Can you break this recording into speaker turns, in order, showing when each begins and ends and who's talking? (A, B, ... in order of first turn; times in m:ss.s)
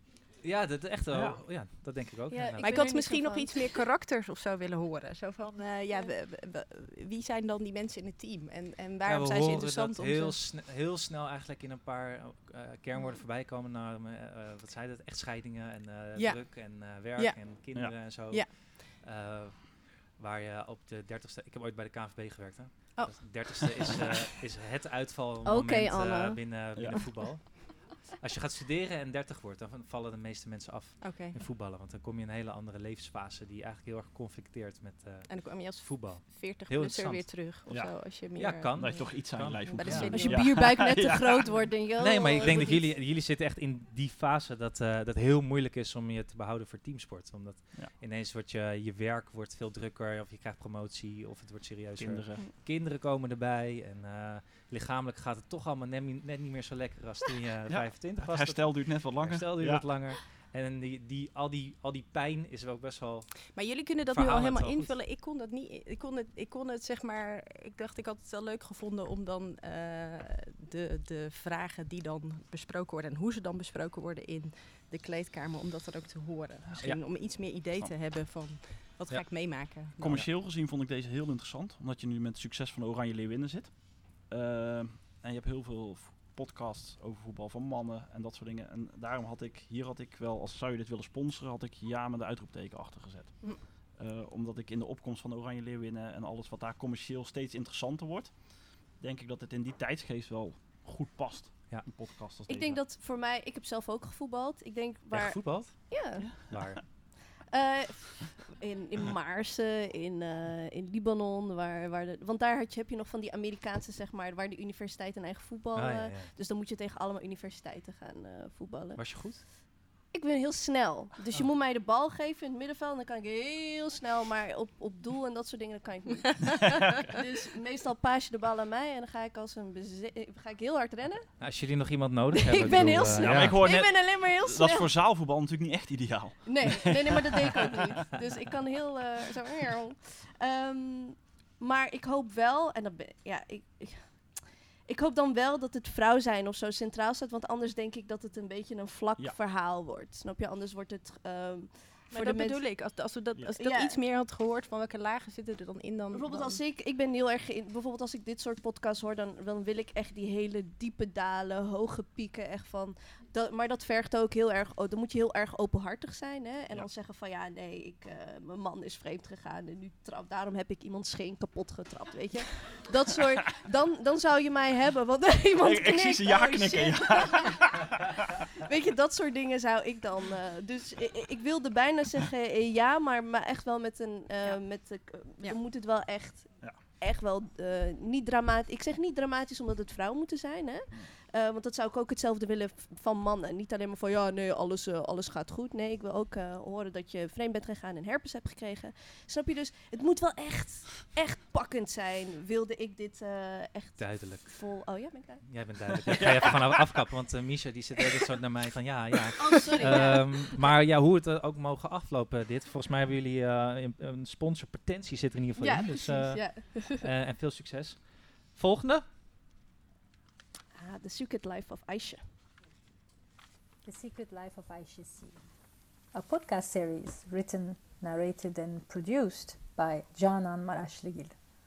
0:00.4-0:03.0 A
0:01.1-0:01.4 B
0:02.3-0:03.8 C
0:02.6-0:10.4 D
0:09.0-0:37.7 A
0:16.1-0:18.5 D
0:23.0-0:24.0 D
0:25.4-0:26.6 C
0:26.7-0:27.0 B
0:31.0-0:31.4 D
0:35.3-0:40.5 D
0:37.7-0:38.2 B
0:38.3-0:40.4 A
0:38.7-0:41.7 B
0:40.1-0:42.9 C
0:42.0-1:04.9 A
0:52.0-0:52.4 B
0:57.7-1:00.0 B
1:03.5-1:20.2 D
1:16.7-1:17.2 B
1:19.1-1:20.2 A
1:20.0-1:42.8 B
1:42.5-1:46.3 C
1:45.1-1:47.1 A
1:46.2-1:46.8 B
1:47.3-1:59.4 C
1:55.7-1:56.3 A
1:59.0-1:59.4 A
2:00.1-2:11.3 C
2:11.4-2:13.6 A
2:12.3-2:14.9 C
2:12.8-2:18.0 B
2:16.4-2:32.6 C
2:32.1-2:36.6 D
2:33.6-2:34.0 C
2:36.1-2:57.9 C
2:55.6-2:57.5 B
2:58.6-3:25.4 C
3:06.6-3:06.8 B
3:24.0-3:39.0 A
3:29.4-3:30.7 C
3:35.6-3:37.0 C
3:40.7-3:42.2 C
3:43.8-3:45.4 E
3:46.1-3:51.4 E